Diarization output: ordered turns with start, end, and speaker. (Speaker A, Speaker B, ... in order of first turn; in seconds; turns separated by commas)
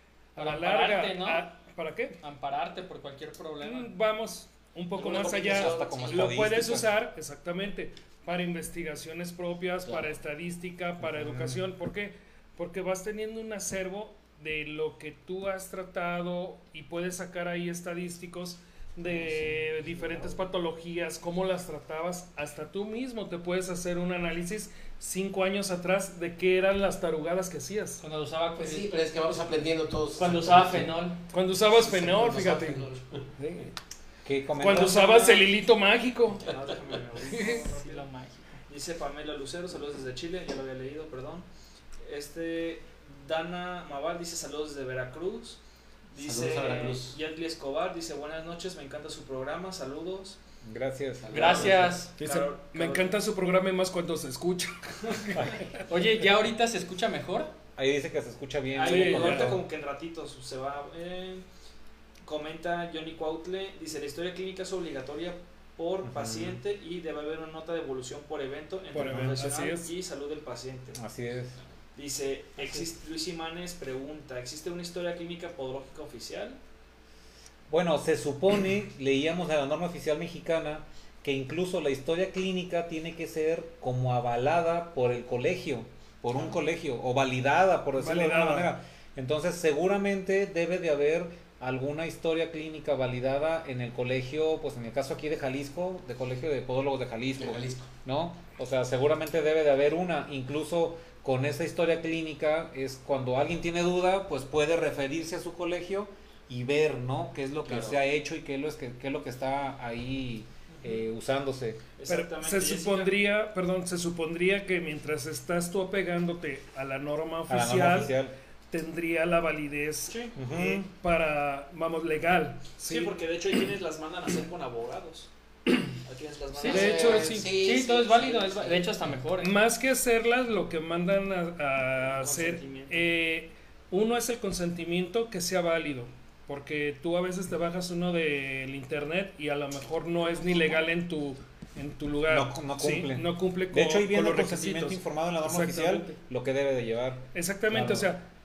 Speaker A: 0.3-2.2, Speaker B: 0.4-1.5, Speaker B: 2.2-3.9, Speaker A: 3.6-28.0, Speaker C: 4.9-6.4, Speaker D: 5.3-6.9, Speaker C: 9.8-10.2, Speaker D: 11.1-11.6, Speaker C: 19.1-20.3, Speaker B: 28.0-28.9, Speaker C: 28.6-30.9, Speaker B: 30.2-31.2, Speaker A: 31.3-32.9, Speaker C: 31.7-33.3, Speaker A: 33.4-33.7, Speaker D: 34.2-35.2, Speaker A: 34.6-36.5, Speaker E: 34.7-35.5, Speaker E: 36.4-38.0, Speaker A: 37.3-37.6, Speaker B: 37.3-38.6, Speaker E: 38.7-41.5, Speaker E: 42.0-45.6, Speaker E: 46.1-50.4, Speaker C: 46.2-47.2, Speaker D: 50.6-51.8, Speaker C: 51.2-52.0, Speaker B: 51.3-52.1, Speaker A: 52.2-55.8, Speaker E: 52.2-53.2, Speaker B: 55.9-57.5, Speaker D: 57.8-59.6, Speaker E: 58.7-61.5, Speaker A: 58.8-59.6, Speaker E: 62.2-71.0, Speaker D: 66.0-66.6, Speaker A: 68.9-69.9, Speaker D: 71.0-71.5, Speaker E: 72.0-76.6, Speaker D: 77.7-111.8, Speaker A: 88.0-88.7, Speaker C: 97.4-97.9, Speaker C: 107.7-108.0, Speaker E: 112.0-113.2, Speaker A: 112.1-118.2, Speaker D: 117.5-118.3, Speaker A: 118.7-120.3, Speaker E: 120.1-120.8, Speaker D: 120.4-120.9, Speaker A: 120.9-123.1, Speaker E: 122.8-125.3, Speaker E: 126.0-127.3, Speaker B: 126.6-129.5, Speaker C: 126.7-128.9, Speaker A: 126.7-127.5, Speaker A: 129.4-146.2, Speaker E: 132.0-133.1, Speaker D: 142.3-148.1, Speaker A: 147.3-148.2